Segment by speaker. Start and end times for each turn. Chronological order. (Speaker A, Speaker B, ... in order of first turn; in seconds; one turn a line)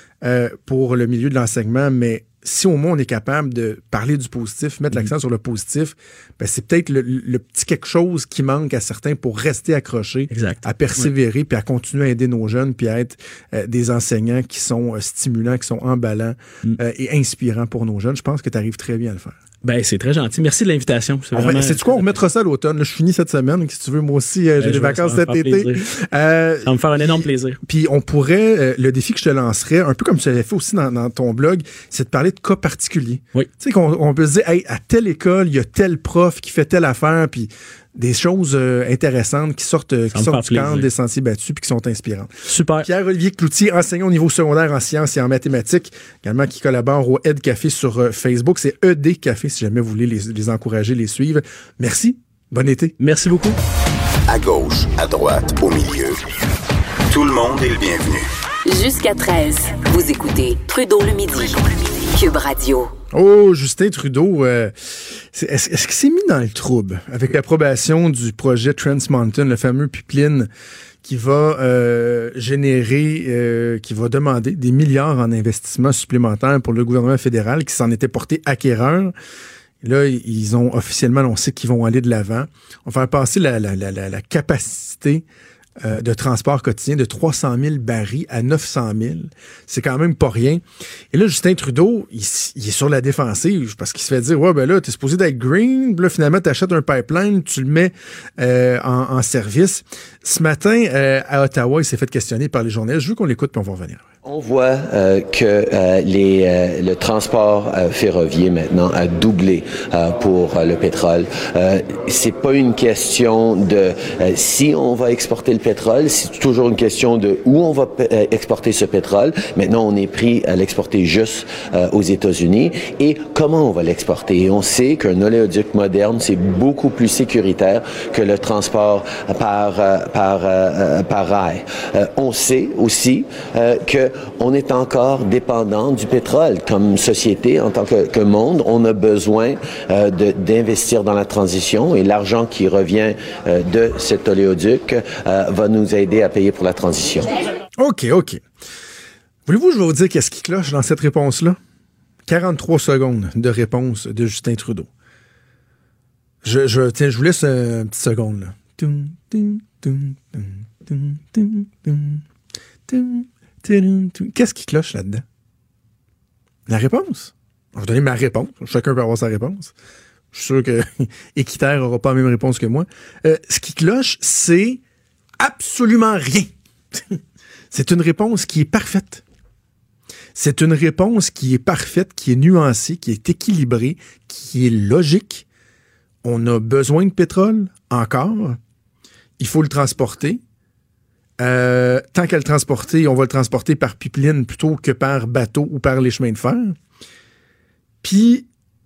Speaker A: 0.2-19.4
Speaker B: 10.3-11.1
Speaker B: 19.6-22.1
Speaker A: 21.3-52.9
Speaker B: 24.6-25.9
Speaker B: 26.6-27.6
Speaker B: 40.1-40.9
Speaker B: 42.5-42.9
Speaker B: 53.0-53.6
Speaker C: 54.3-56.2
Speaker C: 57.1-58.2
Speaker D: 58.6-62.9
Speaker A: 63.1-70.5
Speaker A: 71.0-79.1
Speaker A: 79.8-85.2
Speaker A: 85.8-104.0
Speaker E: 104.2-147.3
Speaker A: 147.8-148.4
Speaker A: 149.4-151.6
Speaker A: 152.2-154.9
Speaker A: 156.4-162.2
Speaker A: 162.9-165.2
Speaker A: 166.7-169.7
Speaker A: 170.3-174.8
Speaker A: 175.4-177.2
Speaker A: 177.7-179.2
Speaker A: 180.3-185.4
Speaker A: 186.2-188.6
Speaker A: 189.4-190.4
Speaker A: 191.4-196.8
Speaker A: 198.0-198.5